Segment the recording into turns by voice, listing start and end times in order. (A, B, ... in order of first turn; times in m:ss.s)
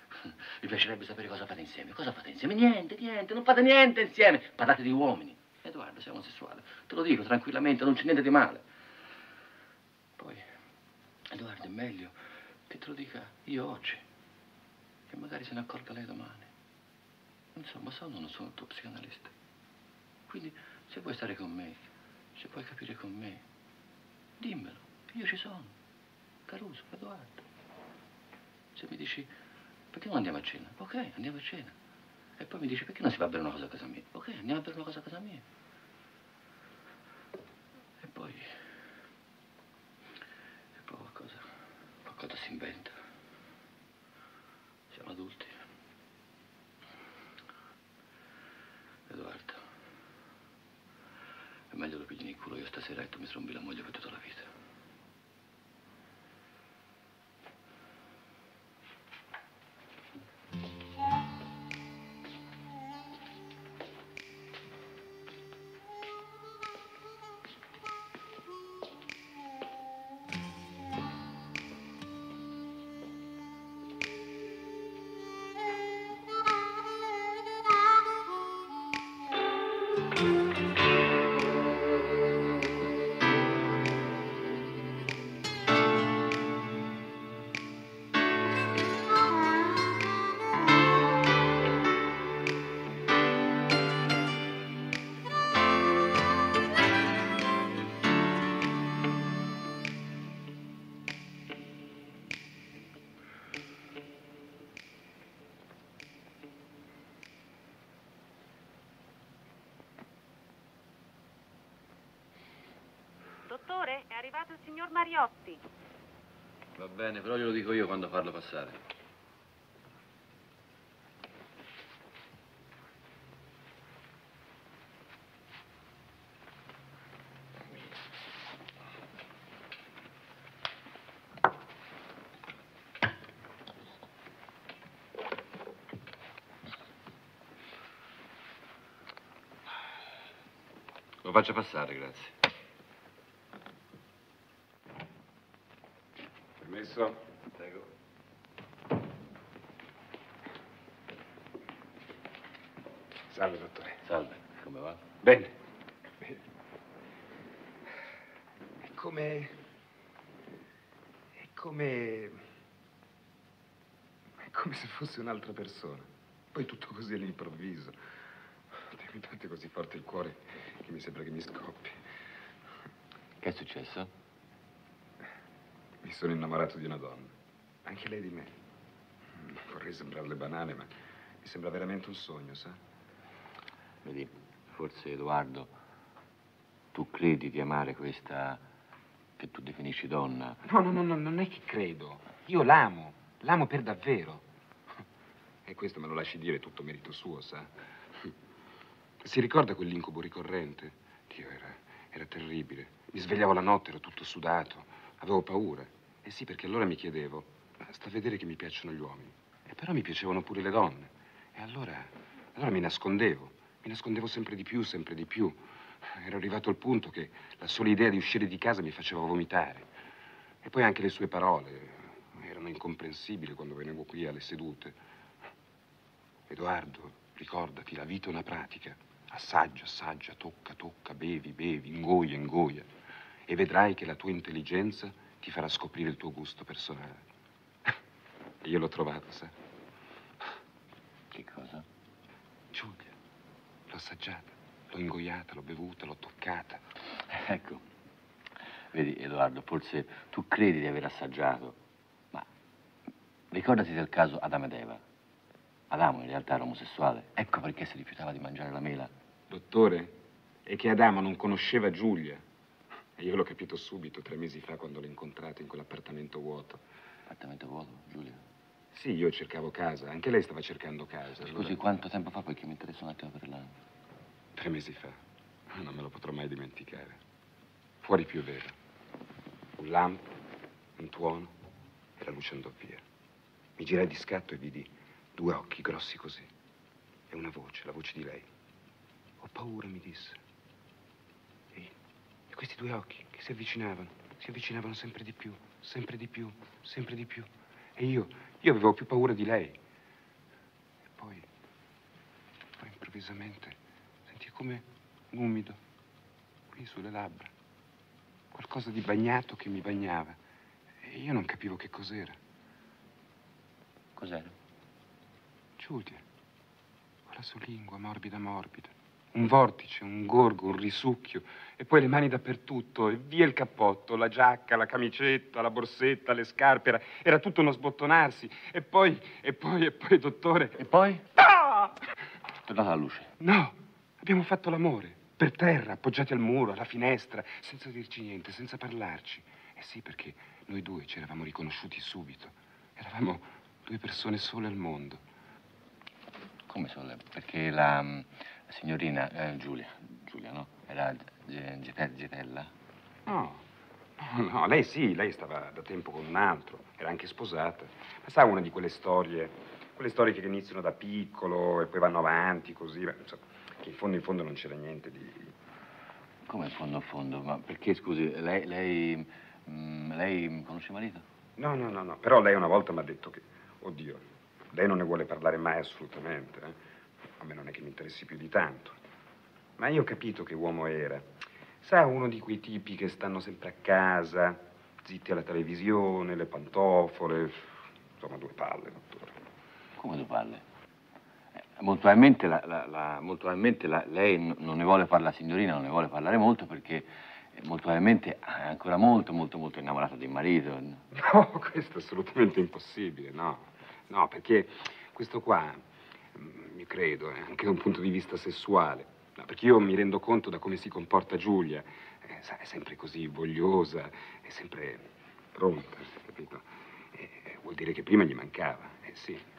0:00.2-0:08.6 A
0:10.2-0:10.5 A
0:11.3-0:12.1 A
0:12.7-0:14.0 A
0:15.1-0:16.5 A
0:17.5-0:19.3 A
0:20.3-0:21.8 A
0:22.4-0:23.4 A
0:24.4-0:25.7 A
0:26.5-0:27.4 A
0:28.7-0:29.3 A
0:29.9-0:31.7 A
0:32.4-0:35.4 A
0:38.0-0:38.5 A
0:40.8-0:41.4 A
0:42.0-0:42.9 A
0:44.9-0:45.5 A
0:49.1-0:49.6 A
0:51.7-0:54.5 A
1:53.5-1:55.6 B
1:56.8-1:58.8 A
2:21.2-2:22.3 A
2:26.6-2:27.2 C
2:27.6-2:27.8 A
2:33.3-2:34.0 C
2:34.0-2:35.0 A
2:35.2-2:35.5 C
2:38.8-2:39.5 C
2:41.4-2:42.4 C
2:44.5-2:47.9 C
2:48.9-2:51.9 C
2:53.4-2:54.1 A
2:56.0-2:57.3 C
2:57.8-2:58.5 C
2:59.4-3:02.8 C
3:04.0-3:05.7 A
3:06.9-3:08.6 A
3:09.4-3:10.6 A
3:10.6-3:14.4 C
3:15.6-3:17.7 C
3:19.2-3:35.6 C
3:36.2-3:39.9 C
3:40.6-3:45.0 C
3:46.5-3:52.9 C
3:53.5-3:57.2 C
3:58.6-3:59.5 C
4:01.3-4:01.8 A
4:02.7-4:03.1 C
4:03.9-4:06.8 C
4:07.3-4:07.8 A
4:08.9-4:11.8 A
4:13.5-4:15.0 A
4:15.9-4:19.1 A
4:19.5-4:20.1 C
4:20.6-4:22.4 C
4:23.2-4:26.8 C
4:27.3-4:28.4 A
4:28.9-4:31.8 C
4:31.4-4:33.7 A
4:34.6-4:35.2 C
4:35.7-4:37.2 C
4:38.0-4:38.7 C
4:39.8-4:40.3 C
4:41.0-4:41.5 C
4:42.2-4:43.0 C
4:43.8-4:46.5 C
4:47.3-4:48.5 C
4:49.4-4:50.4 C
4:52.5-4:59.8 C
5:01.1-5:01.4 C
5:02.8-5:03.8 C
5:04.3-5:05.8 C
5:06.7-5:07.5 C
5:08.5-5:10.4 C
5:11.0-5:12.4 C
5:14.2-5:14.5 A
5:15.8-5:16.2 C
5:17.3-5:30.8 C
5:30.8-5:31.2 A
5:31.6-5:31.9 C
5:32.6-5:33.3 A
5:33.4-5:45.2 C
5:46.7-5:52.7 A
5:53.3-5:53.6 C
5:54.2-6:05.5 C
6:06.4-6:11.2 A
6:11.6-6:16.8 C
6:17.4-6:19.0 C
6:19.8-6:27.6 C
6:28.2-6:29.3 C
6:30.0-6:30.6 A
6:31.8-6:41.0 A
6:41.1-6:45.8 C
6:46.3-6:59.4 C